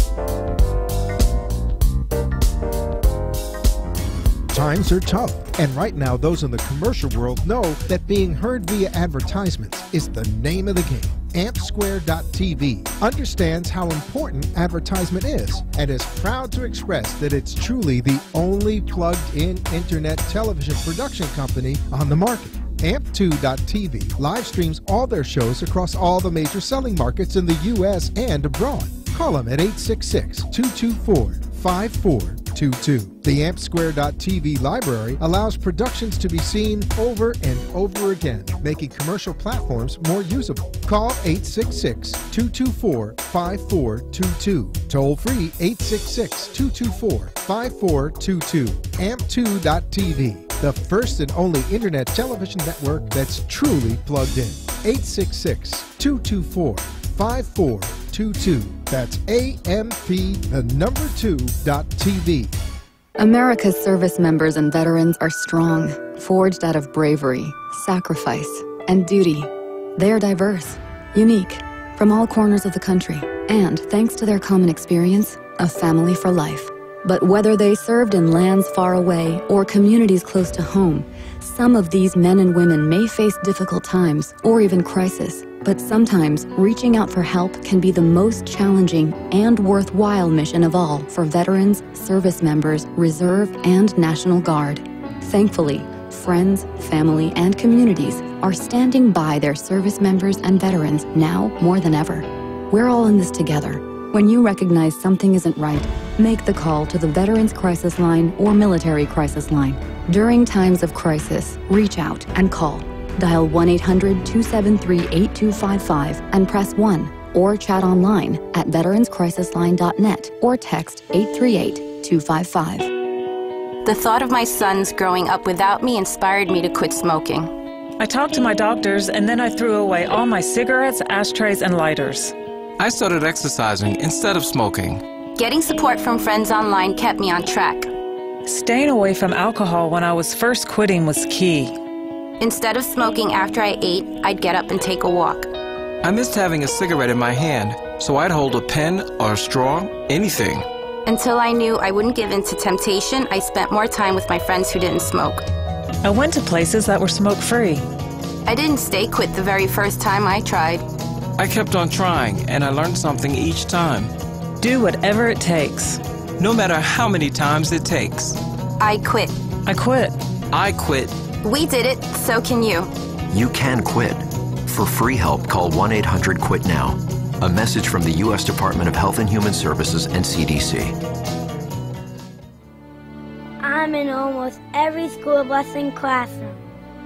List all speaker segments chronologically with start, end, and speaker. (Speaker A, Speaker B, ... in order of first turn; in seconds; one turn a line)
Speaker A: 4.5-62.5
Speaker B: 63.2-122.9
Speaker C: 123.8-127.5
Speaker D: 128.0-132.3
Speaker E: 132.8-135.0
Speaker C: 135.4-137.9
Speaker D: 138.4-141.8
Speaker C: 142.4-145.5
Speaker E: 146.0-150.7
Speaker C: 151.1-155.4
Speaker D: 156.0-157.9
Speaker C: 158.4-160.9
Speaker E: 161.4-164.1
Speaker D: 164.6-166.0
Speaker E: 166.4-168.4
Speaker C: 168.8-169.3
Speaker D: 169.7-170.2
Speaker E: 170.5-171.2
Speaker C: 171.4-172.9
Speaker F: 173.3-180.9
Speaker G: 183.6-186.6